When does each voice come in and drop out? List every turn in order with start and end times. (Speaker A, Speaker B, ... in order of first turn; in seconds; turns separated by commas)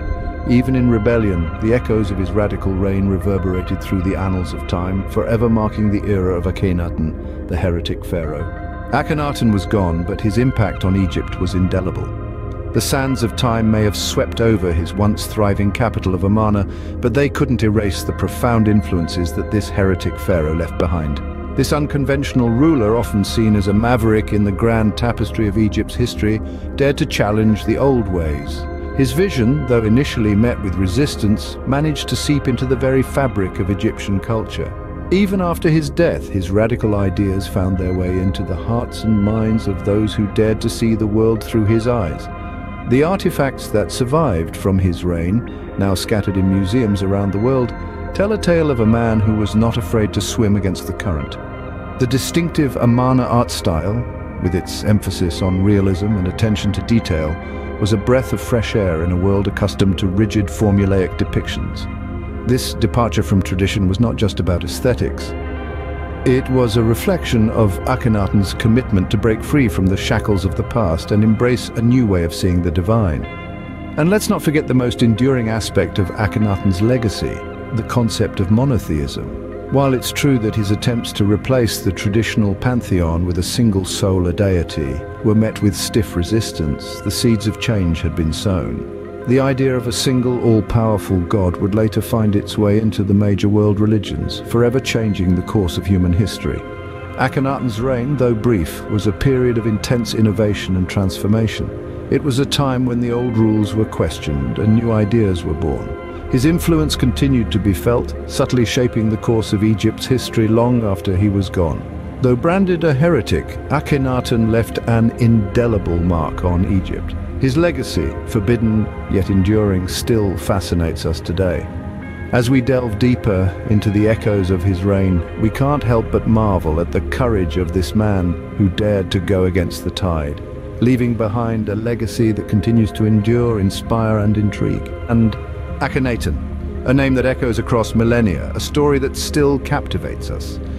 Speaker A: 0.4-12.1, Speaker A: 12.7-42.3, Speaker A: 42.9-51.4, Speaker A: 52.0-61.9, Speaker A: 62.4-65.3, Speaker A: 66.2-73.3, Speaker A: 74.0-96.7, Speaker A: 97.2-121.7, Speaker A: 122.3-140.6